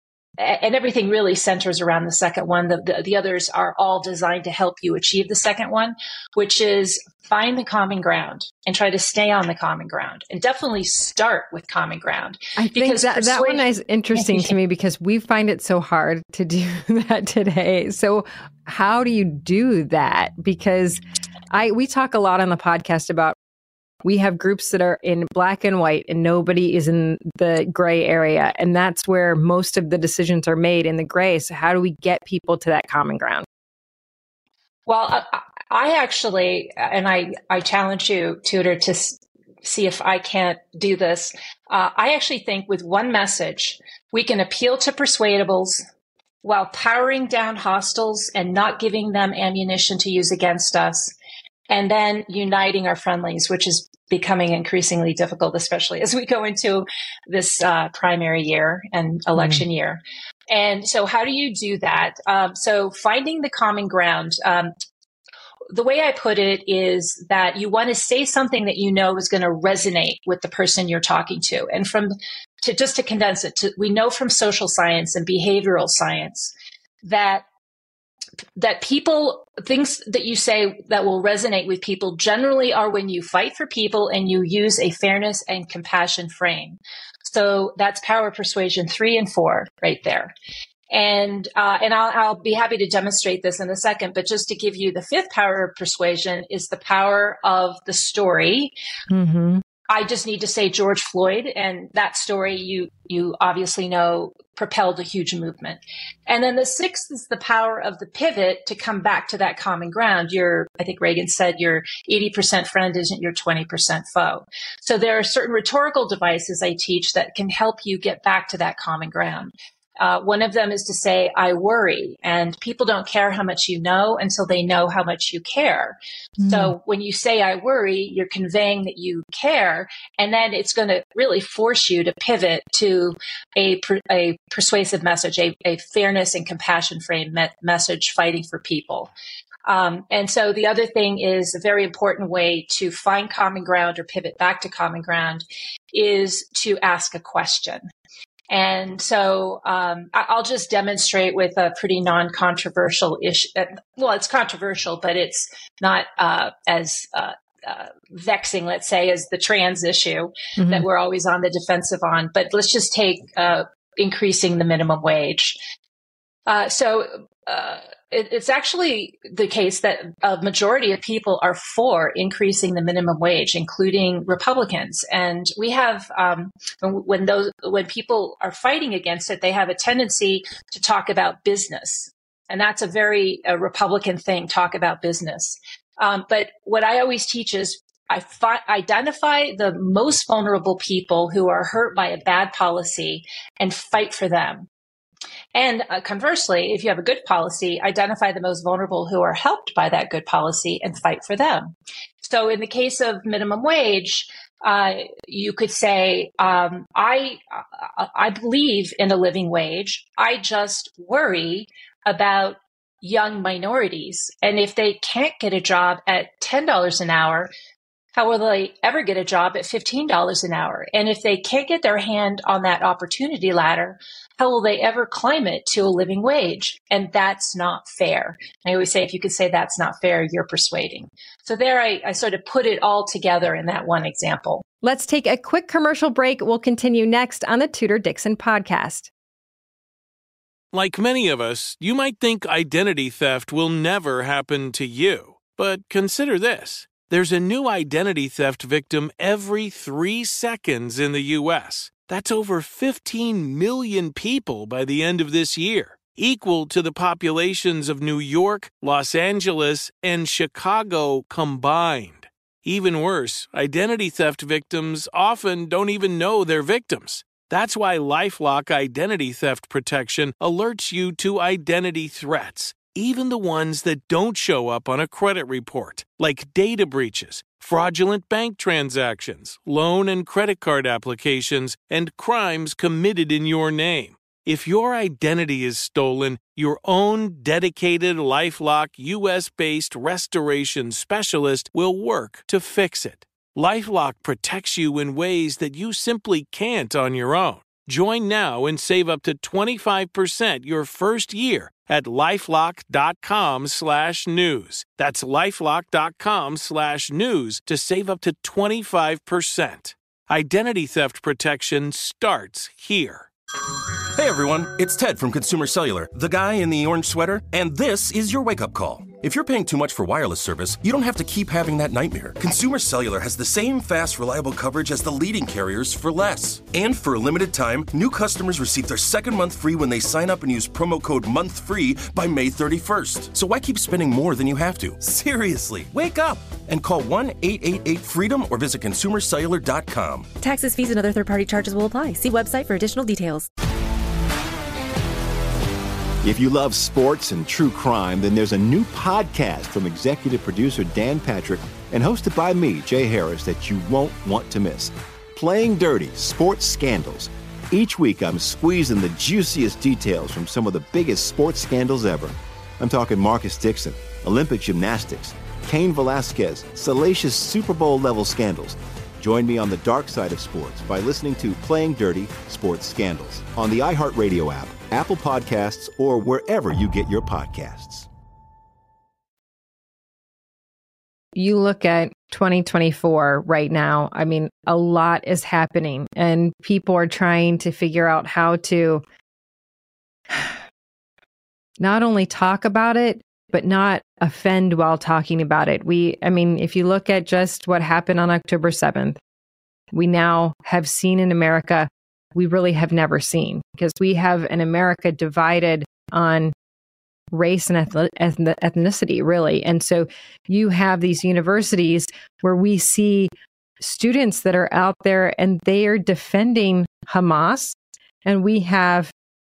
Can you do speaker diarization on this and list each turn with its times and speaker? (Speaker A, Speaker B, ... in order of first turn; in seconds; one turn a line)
Speaker A: 0.4-14.5
Speaker B: 12.6-23.4
Speaker B: 24.0-33.5
Speaker A: 34.9-45.8
Speaker A: 46.4-51.1
Speaker A: 51.7-64.7
Speaker B: 59.3-59.6
Speaker A: 65.7-77.4
Speaker A: 78.6-90.3
Speaker A: 90.9-98.7
Speaker B: 99.1-99.6
Speaker A: 99.9-139.1
Speaker B: 126.4-126.7
Speaker A: 139.7-147.8
Speaker A: 148.5-165.6
Speaker B: 160.6-160.8
Speaker A: 166.5-194.7
Speaker A: 195.5-217.5
Speaker A: 218.1-234.6
Speaker B: 234.8-239.1
Speaker C: 240.7-313.3
Speaker D: 314.1-340.3
Speaker E: 340.4-343.5
Speaker F: 346.2-378.1
Speaker B: 381.3-389.0
Speaker B: 390.3-390.5
Speaker B: 391.8-399.2
Speaker B: 399.9-406.5
Speaker B: 407.3-419.1